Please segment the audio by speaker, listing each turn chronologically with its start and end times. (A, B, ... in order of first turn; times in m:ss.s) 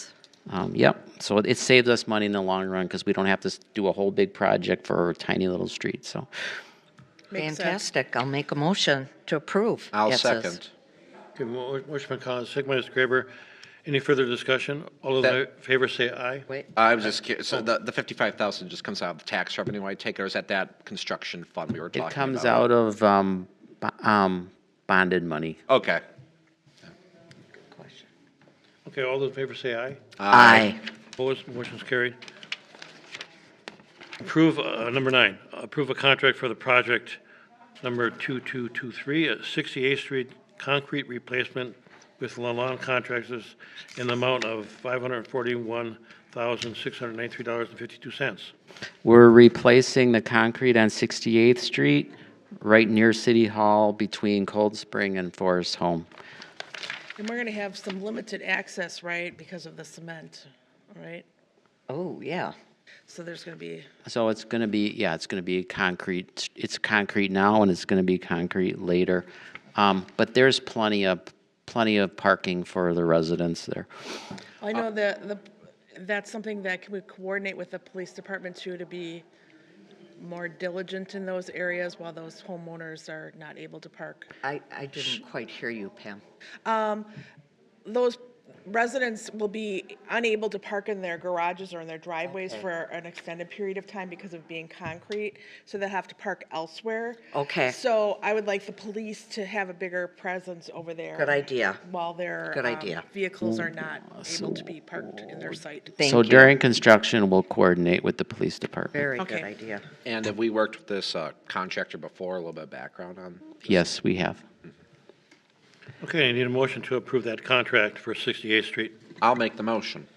0:00.5-0:06.3 A
0:07.3-0:07.8 B
0:07.4-0:10.6 C
0:09.9-0:10.7 D
0:11.4-0:13.3 E
0:13.8-0:16.5 E
0:16.8-0:22.7 D
0:21.9-0:25.6 A
0:25.7-0:26.0 D
0:27.7-0:28.1 C
0:28.8-0:30.0 E
0:30.2-0:30.7 D
0:30.3-0:30.8 C
0:31.2-0:32.2 E
0:34.2-0:37.2 E
0:37.8-0:48.5 E
0:49.0-0:56.1 A
0:57.2-1:01.3 B
1:01.9-1:02.5 C
1:03.1-1:03.9 B
1:04.0-1:13.9 A
1:14.6-1:19.3 B
1:20.2-1:24.3 B
1:24.4-1:26.2 C
1:26.6-1:27.2 B
1:27.8-1:46.0 B
1:32.4-1:32.6 C
1:37.3-1:37.8 C
1:41.2-1:41.8 C
1:42.5-1:43.0 C
1:44.2-1:44.5 A
1:46.0-1:46.6 C
1:46.0-1:48.9 A
1:48.9-1:49.8 C
1:49.2-1:49.5 B
1:50.0-1:53.6 D
1:53.6-1:54.4 A
1:56.0-1:59.0 E
1:59.2-2:00.1 D